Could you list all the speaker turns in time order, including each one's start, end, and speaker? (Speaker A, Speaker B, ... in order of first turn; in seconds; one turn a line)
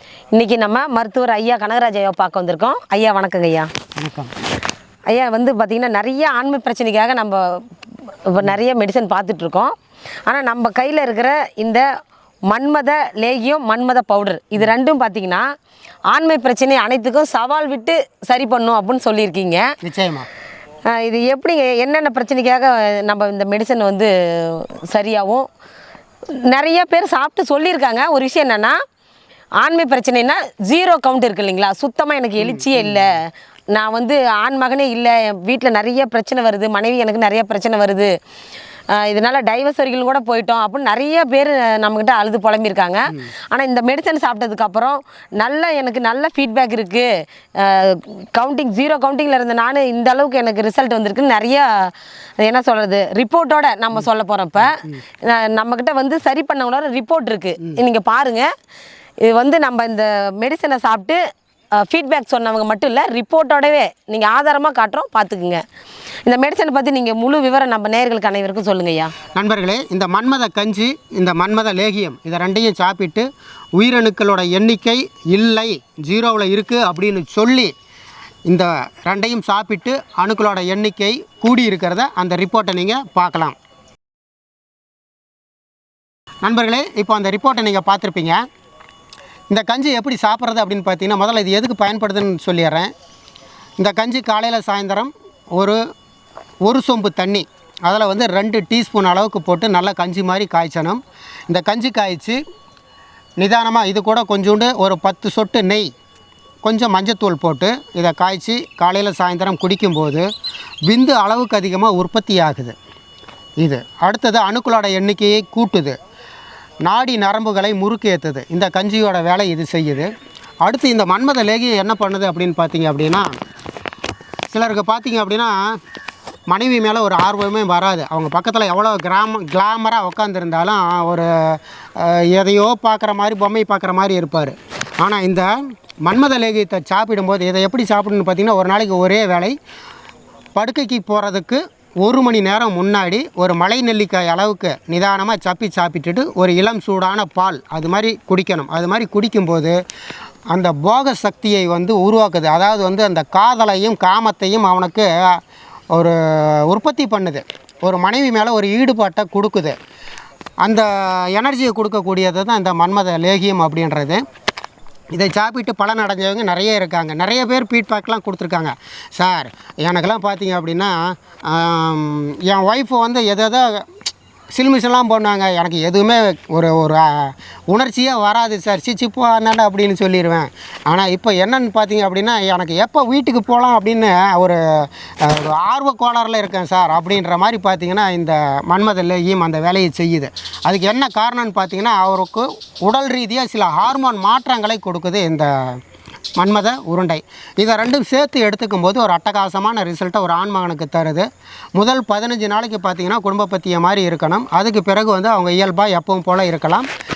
Speaker A: 0.3-3.7
Speaker B: 4.0-4.3
Speaker A: 5.1-9.8
Speaker A: 10.3-11.8
Speaker A: 12.5-15.4
Speaker A: 16.1-19.8
Speaker B: 19.8-20.3
Speaker A: 20.9-25.5
Speaker A: 26.4-28.8
Speaker A: 29.6-38.1
Speaker B: 32.4-33.2
Speaker A: 38.9-58.5
Speaker A: 59.2-61.2
Speaker A: 61.8-65.6
Speaker A: 66.3-69.2
Speaker B: 69.3-77.7
Speaker B: 78.5-83.6
Speaker B: 86.4-88.4
Speaker B: 89.5-92.9
Speaker B: 93.8-95.8
Speaker B: 96.7-102.4
Speaker B: 103.4-105.9
Speaker B: 106.6-110.3
Speaker B: 110.9-112.8
Speaker B: 113.6-116.0
Speaker B: 116.9-120.1
Speaker B: 120.6-123.3
Speaker B: 124.5-125.8
Speaker B: 126.5-135.5
Speaker B: 136.1-139.6
Speaker B: 140.6-149.8
Speaker B: 150.5-155.4
Speaker B: 155.9-159.8
Speaker B: 160.6-164.2
Speaker B: 165.1-174.0
Speaker B: 174.5-195.8
Speaker B: 196.4-206.9